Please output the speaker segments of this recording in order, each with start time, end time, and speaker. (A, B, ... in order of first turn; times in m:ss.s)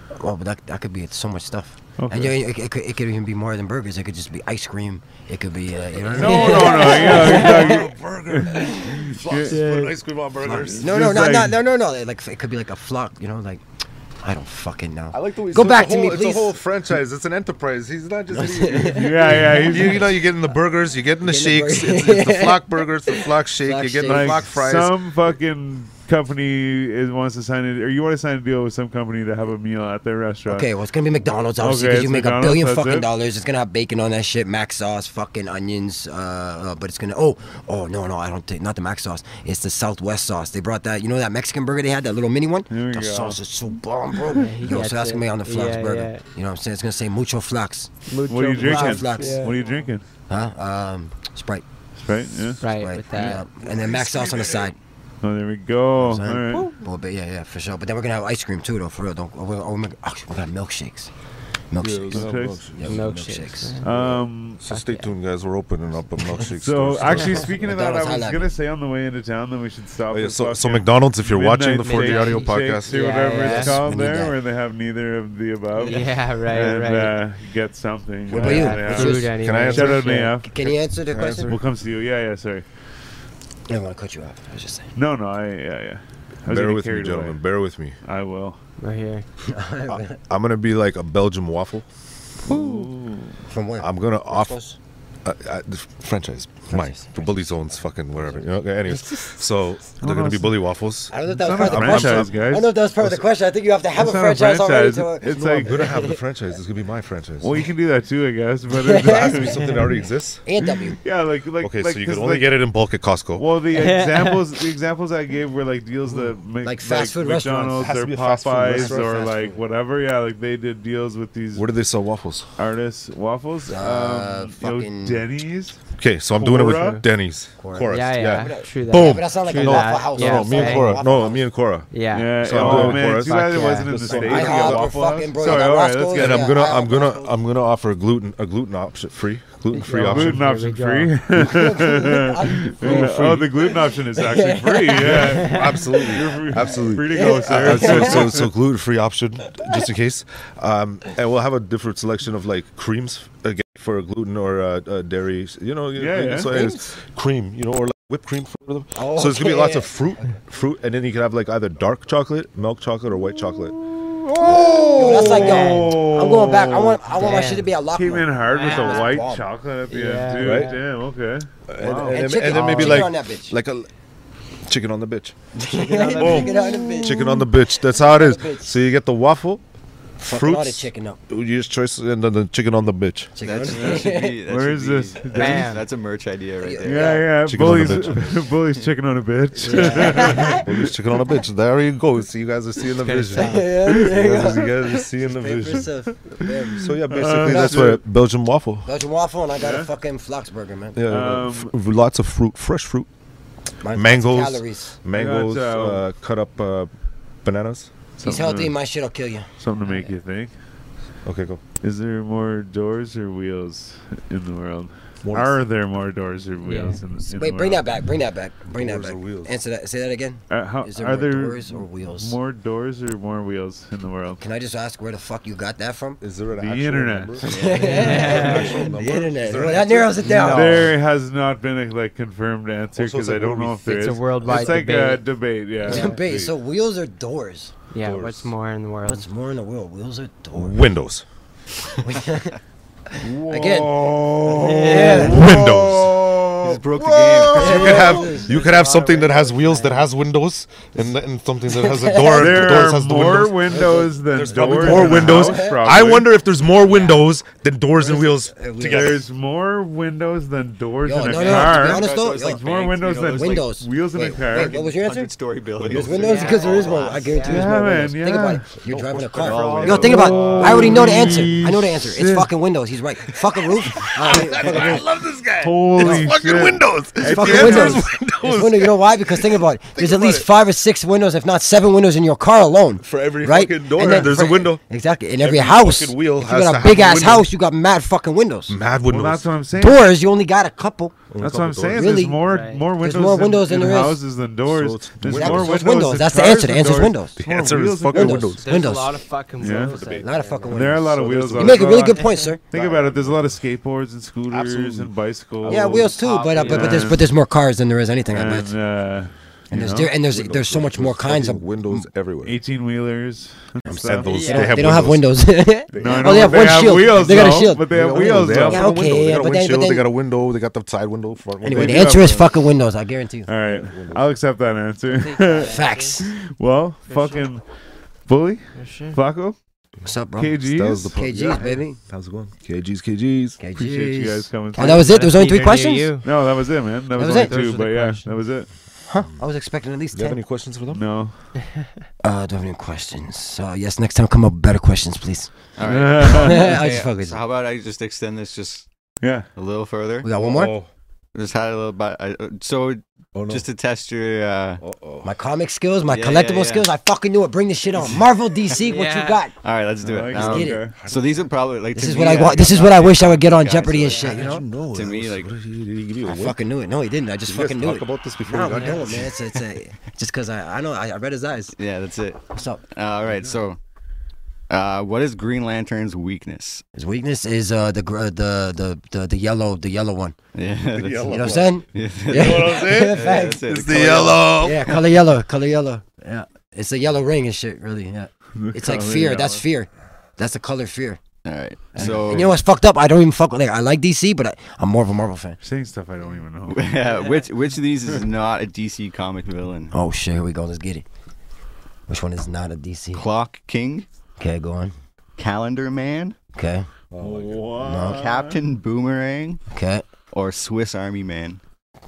0:00.2-0:07.8 A
0:02.0-0:02.3 B
0:06.0-0:11.3 C
0:06.1-0:09.6 B
0:06.3-0:07.7 D
0:09.5-0:10.0 D
0:10.4-0:13.6 A
0:10.5-0:11.6 B
0:14.2-0:16.5 A
0:15.1-0:25.0 C
0:18.3-0:20.0 A
0:18.9-0:20.0 B
0:21.2-0:24.5 A
0:24.0-0:30.7 B
0:30.5-0:47.9 A
0:31.6-0:33.1 B
0:42.7-0:43.4 B
0:44.4-0:46.2 D
0:48.1-0:49.7 D
0:48.3-0:50.0 B
0:48.6-0:49.5 A
0:50.3-0:51.6 A
0:52.0-0:52.6 B
0:52.6-0:53.4 D
0:52.6-0:54.8 A
0:53.1-0:54.7 C
0:55.2-0:56.7 B
0:56.0-1:01.1 A
1:01.7-1:03.8 A
1:01.8-1:03.0 C
1:02.1-1:02.6 B
1:02.8-1:03.8 D
1:03.8-1:04.6 B
1:03.8-1:07.5 C
1:04.7-1:05.1 D
1:06.5-1:20.5 B
1:07.1-1:07.4 D
1:07.3-1:08.5 A
1:10.1-1:13.0 C
1:11.8-1:13.8 D
1:13.4-1:14.4 A
1:15.7-1:17.2 D
1:18.3-1:19.3 A
1:18.3-1:20.3 D
1:19.3-1:20.1 C
1:20.4-1:21.6 A
1:21.1-1:22.6 B
1:21.3-1:21.6 D
1:23.7-1:24.9 A
1:24.9-1:27.4 B
1:26.5-1:28.0 C
1:28.0-1:28.6 B
1:28.8-1:29.2 D
1:29.4-1:30.2 A
1:29.9-1:31.8 C
1:32.4-1:33.3 B
1:32.5-1:32.9 E
1:33.5-1:34.8 A
1:33.8-1:34.6 C
1:35.2-1:42.4 C
1:36.7-1:37.3 A
1:40.0-1:40.6 B
1:41.1-1:46.2 A
1:41.2-1:42.7 B
1:43.9-1:45.8 B
1:45.3-1:47.5 C
1:47.4-1:49.7 B
1:48.7-1:49.7 A
1:49.0-1:50.4 C
1:50.4-1:51.0 A
1:50.7-1:52.6 B
1:51.6-1:53.4 C
1:53.4-2:01.6 B
1:53.7-1:54.4 D
1:56.6-1:57.9 A
1:57.8-1:59.1 C
1:58.6-1:59.6 A
2:01.5-2:02.5 C
2:02.6-2:05.8 B
2:03.7-2:05.2 A
2:06.0-2:15.6 C
2:06.4-2:07.0 B
2:07.6-2:11.5 A
2:07.9-2:11.0 D
2:11.9-2:14.0 D
2:12.1-2:16.5 B
2:12.6-2:13.0 A
2:14.1-2:17.3 A
2:16.1-2:20.4 C
2:19.7-2:21.1 D
2:19.9-2:28.5 B
2:21.3-2:26.1 A
2:21.6-2:22.0 C
2:22.8-2:23.5 C
2:25.0-2:43.8 C
2:25.4-2:25.7 D
2:27.1-2:28.4 A
2:36.0-2:36.5 B
2:36.5-2:36.9 A
2:38.9-2:40.3 A
2:43.2-2:47.4 B
2:44.4-2:45.6 C
2:44.9-2:49.4 A
2:45.0-2:46.0 D
2:47.1-2:47.7 D
2:47.9-2:53.0 B
2:48.4-2:49.2 D
2:49.9-2:50.8 D
2:50.4-2:50.7 C
2:51.7-2:53.9 C
2:51.9-2:53.5 A
2:54.6-2:55.3 C
2:55.5-2:58.7 A
2:55.7-2:56.8 D
2:56.2-2:59.6 C
2:56.2-2:57.4 B
3:00.2-3:01.2 A
3:00.3-3:03.3 C
3:03.4-3:04.4 A
3:03.4-3:07.2 E
3:03.7-3:05.8 B
3:05.3-3:05.9 D
3:06.6-3:07.3 A
3:06.8-3:10.8 B
3:07.4-3:08.4 C
3:09.6-3:10.6 A
3:09.7-3:15.9 C
3:09.7-3:10.5 D
3:13.0-3:13.8 D
3:13.3-3:18.0 A
3:13.8-3:14.5 B
3:16.4-3:18.0 B
3:16.7-3:18.9 C
3:18.8-3:21.0 A
3:19.6-3:19.9 B
3:20.9-3:23.1 C
3:21.1-3:21.7 B
3:23.8-3:25.0 A
3:23.9-3:26.9 C
3:25.1-3:26.0 B
3:27.4-3:27.9 C
3:28.2-3:28.7 B
3:28.2-3:29.5 A
3:29.6-3:30.5 B
3:29.8-3:30.1 D
3:31.2-3:31.6 C
3:31.8-3:37.9 B
3:35.2-3:35.6 C
3:36.6-3:37.0 D
3:37.2-3:42.4 A
3:38.7-3:39.5 C
3:40.5-3:44.4 B
3:44.4-3:46.2 A
3:46.2-3:50.5 C
3:46.5-3:48.5 B
3:47.4-3:48.1 E
3:47.4-3:51.0 A
3:47.5-3:48.8 D
3:50.2-3:50.9 D
3:50.3-3:56.5 B
3:53.0-3:54.9 C
3:53.9-3:55.2 D
3:55.8-3:56.2 D
3:55.8-3:57.7 A
3:57.9-3:59.2 D
3:58.0-3:58.5 C
3:59.1-4:00.8 A
4:00.6-4:01.2 C
4:02.0-4:05.6 A
4:03.2-4:06.8 B
4:04.5-4:05.3 D
4:05.1-4:19.2 C
4:06.6-4:08.2 E
4:07.3-4:10.0 A
4:07.6-4:08.5 B
4:11.7-4:15.9 A
4:12.2-4:16.3 B
4:16.8-4:17.2 A
4:17.9-4:19.2 A
4:18.8-4:24.8 B
4:21.0-4:22.6 A
4:21.2-4:23.7 E
4:23.2-4:25.3 A
4:24.5-4:27.3 E
4:25.8-4:26.5 C
4:25.8-4:35.0 A
4:26.1-4:27.9 D
4:27.4-4:28.6 B
4:28.8-4:31.6 C
4:29.3-4:30.8 E
4:29.9-4:32.5 B
4:33.3-4:40.5 C
4:35.6-4:38.0 B
4:37.2-4:48.7 A
4:43.0-4:44.8 C
4:45.4-4:47.5 C
4:48.7-4:49.4 C
4:49.0-4:50.1 B
4:49.8-4:51.2 A
4:51.3-4:52.2 C
4:51.4-4:58.6 B
4:51.9-4:52.4 A
4:52.4-4:52.8 D
4:53.0-4:54.2 A
4:54.6-4:56.1 C
4:55.3-4:57.4 A
4:57.4-4:58.6 C
4:58.1-4:59.1 A
4:58.6-5:00.8 D
4:59.6-5:00.0 B
4:59.6-5:00.3 C
5:00.1-5:02.6 A
5:00.7-5:07.3 B
5:00.9-5:02.1 C
5:02.2-5:02.5 D
5:02.7-5:03.5 C
5:04.5-5:07.0 C
5:05.6-5:08.7 A
5:06.2-5:07.1 D
5:08.3-5:10.1 B
5:09.7-5:12.1 A
5:10.1-5:12.6 C
5:12.4-5:14.7 B
5:13.9-5:20.0 A
5:14.0-5:15.4 C
5:14.3-5:14.8 D
5:15.9-5:22.4 C
5:16.0-5:19.1 B
5:21.6-5:23.5 A
5:21.7-5:22.6 B
5:23.5-5:27.6 B
5:23.6-5:24.3 C
5:25.1-5:26.2 D
5:25.5-5:26.3 A
5:27.1-5:27.4 D
5:28.3-5:29.6 B
5:28.7-5:29.2 D
5:30.0-5:30.6 A
5:30.4-5:31.1 B
5:30.6-5:33.6 C
5:31.1-5:32.0 A
5:33.6-5:36.2 A
5:33.7-5:35.5 B
5:34.7-5:36.2 D
5:36.2-5:38.7 B
5:37.2-5:37.6 A
5:37.2-5:38.3 D
5:39.1-5:40.4 A
5:40.1-5:41.0 C
5:40.9-5:41.5 B
5:42.2-5:45.5 A
5:45.8-5:48.9 E
5:45.8-5:46.7 B
5:46.2-5:47.4 A
5:49.2-5:49.5 B
5:49.5-5:50.3 E
5:50.2-5:50.7 A
5:50.3-5:50.9 C
5:51.3-5:54.8 E
5:53.3-5:53.7 C
5:54.8-5:55.3 C
5:55.2-5:59.5 A
5:56.1-5:56.9 E
5:58.8-5:59.4 D
5:59.6-6:05.5 E
6:00.0-6:01.0 B
6:00.3-6:00.9 A
6:01.0-6:01.5 C
6:01.9-6:04.6 A
6:04.1-6:06.6 C
6:06.2-6:11.7 A
6:07.5-6:09.3 C
6:08.6-6:09.1 D
6:11.8-6:13.8 E
6:12.5-6:12.8 A
6:14.7-6:16.8 E
6:16.9-6:20.4 A
6:20.5-6:24.5 E
6:20.9-6:25.0 C
6:21.3-6:23.7 A
6:24.6-6:31.2 A
6:28.6-6:29.6 B
6:31.4-6:32.6 E
6:31.9-6:35.6 A
6:35.6-6:36.9 B
6:36.7-6:39.9 E
6:39.9-6:41.0 A
6:42.1-6:43.3 A
6:43.1-6:44.1 E
6:44.4-6:44.9 A
6:45.4-6:46.4 E
6:46.5-6:46.9 A
6:47.1-6:47.7 C
6:47.2-6:48.6 B
6:47.8-6:48.2 A
6:48.1-6:49.6 E
6:49.7-6:50.1 A
6:50.3-6:51.6 E